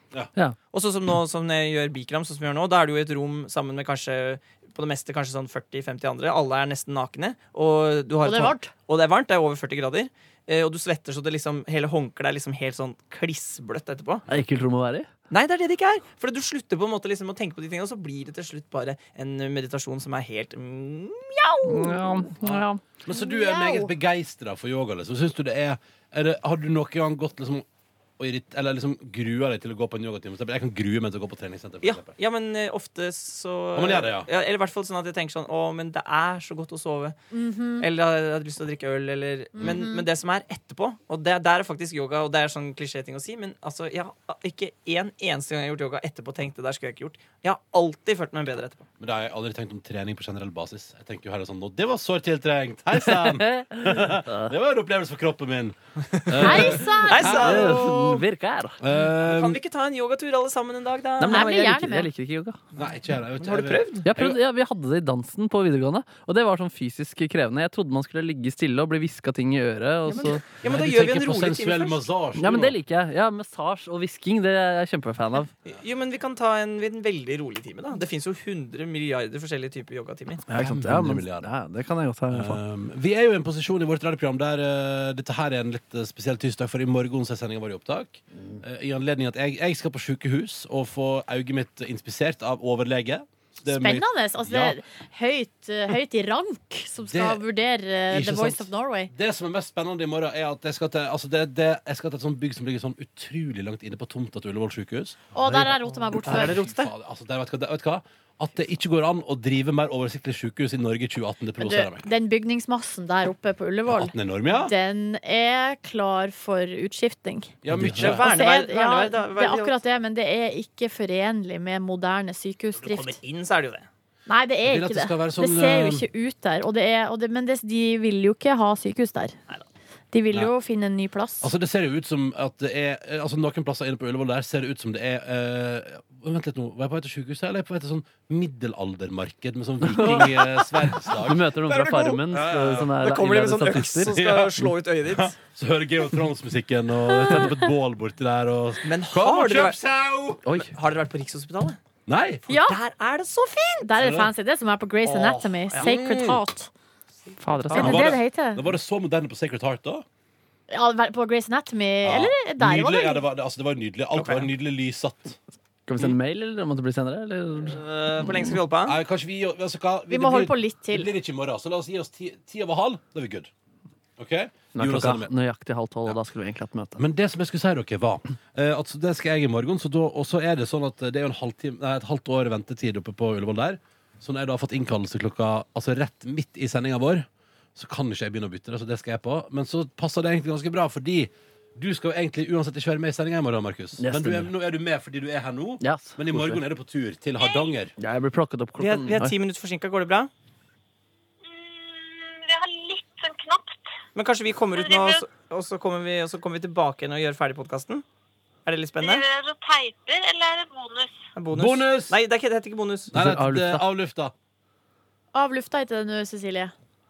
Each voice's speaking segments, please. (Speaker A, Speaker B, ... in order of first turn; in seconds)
Speaker A: 0.7-14.2, 15.3-22.3, 31.8-37.2, 37.8-48.9, 56.3-58.2, 59.2-61.5, 63.4-64.1, 70.1-72.1, 75.7-80.5, 105.5-106.9, 117.7-119.8, 122.8-123.9, 141.7-142.3, 143.0-145.4, 148.8-149.8, 150.6-151.8, 152.5-153.6, 157.5-158.0, 164.1-164.5, 167.7-169.0, 198.8-200.3, 204.2-208.1, 208.7-209.3, 211.3-213.1
Speaker B: 8.2-8.7, 23.1-23.9, 37.3-37.9, 39.6-40.0, 56.4-57.5, 61.3-62.1, 93.7-99.1, 105.3-106.6, 111.6-117.5, 118.2-123.2, 124.3-129.4, 130.1-131.5, 152.5-152.8, 153.5-156.7, 157.7-158.7, 160.7-163.2, 170.1-171.1, 215.3-216.7
Speaker C: 14.3-15.1, 21.7-22.8, 53.0-54.5, 57.2-58.8, 61.2-62.6, 64.0-70.4, 72.4-75.5, 80.5-82.6, 117.8-118.1, 139.8-144.2, 150.4-150.7, 157.4-158.0, 165.9-167.8, 174.8-177.0, 194.0-194.5, 195.8-196.6, 198.0-199.4, 213.1-213.8
Speaker D: 22.4-27.6, 28.2-32.1, 33.8-34.3, 49.0-57.9, 58.8-59.6, 62.8-64.4, 70.6-72.8, 80.5-81.5, 82.3-94.8, 97.1-97.4, 98.1-112.1, 113.9-114.7, 117.6-118.2, 124.7-126.1, 131.4-141.5, 142.3-142.9, 144.0-150.4, 152.1-152.5, 154.0-154.3, 155.1-156.4, 157.7-160.1, 162.0-165.4, 168.8-173.5, 174.2-175.3, 177.0-197.9, 211.5-212.2, 213.1-214.3
Speaker E: 202.0-203.7, 209.5-211.1